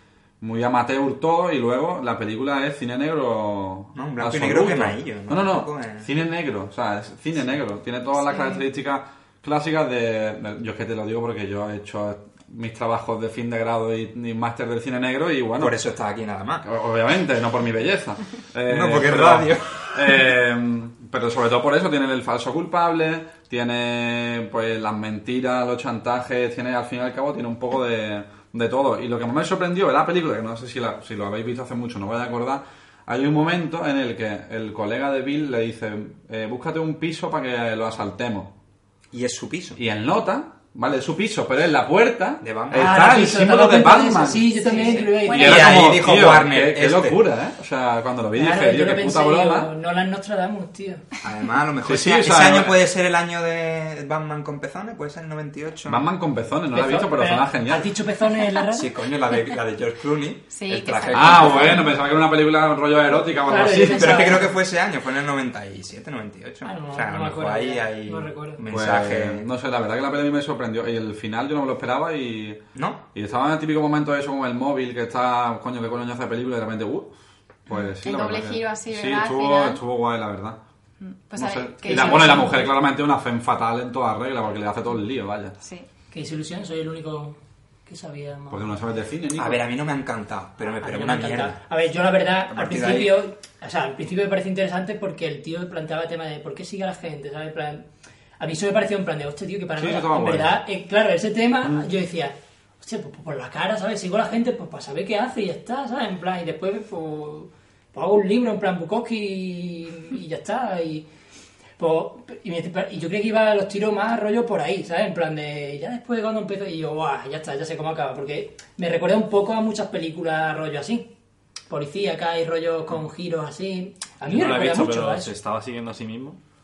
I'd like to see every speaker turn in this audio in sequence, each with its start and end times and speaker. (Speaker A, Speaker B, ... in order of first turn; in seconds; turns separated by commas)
Speaker A: 0.4-15.8, Speaker B: 3.9-6.1, Speaker C: 8.2-8.6, Speaker B: 15.6-16.6, Speaker A: 16.6-38.5, Speaker B: 18.7-20.0, Speaker B: 39.1-39.8, Speaker A: 39.8-44.5, Speaker B: 42.4-43.3, Speaker D: 42.7-45.7, Speaker C: 44.5-45.7, Speaker B: 44.7-47.2, Speaker A: 45.2-49.7, Speaker D: 48.4-51.0, Speaker B: 51.2-56.0, Speaker A: 51.8-52.8, Speaker A: 55.9-57.9, Speaker D: 56.7-58.9, Speaker B: 58.7-61.8, Speaker C: 60.5-61.9, Speaker A: 61.1-64.3, Speaker D: 63.5-64.5, Speaker B: 63.9-69.5, Speaker D: 66.6-68.6, Speaker A: 68.7-72.6, Speaker B: 72.7-73.0, Speaker A: 73.1-77.1, Speaker A: 77.7-80.6, Speaker C: 78.0-79.8, Speaker C: 81.0-82.7, Speaker A: 81.3-85.5, Speaker D: 81.8-82.7, Speaker C: 85.6-85.9, Speaker D: 86.1-88.6, Speaker A: 88.5-89.6, Speaker B: 89.3-91.6, Speaker D: 90.8-97.9, Speaker B: 92.5-93.2, Speaker D: 98.4-111.1, Speaker A: 99.8-100.6, Speaker D: 111.8-121.1, Speaker D: 121.7-125.3, Speaker E: 124.2-126.4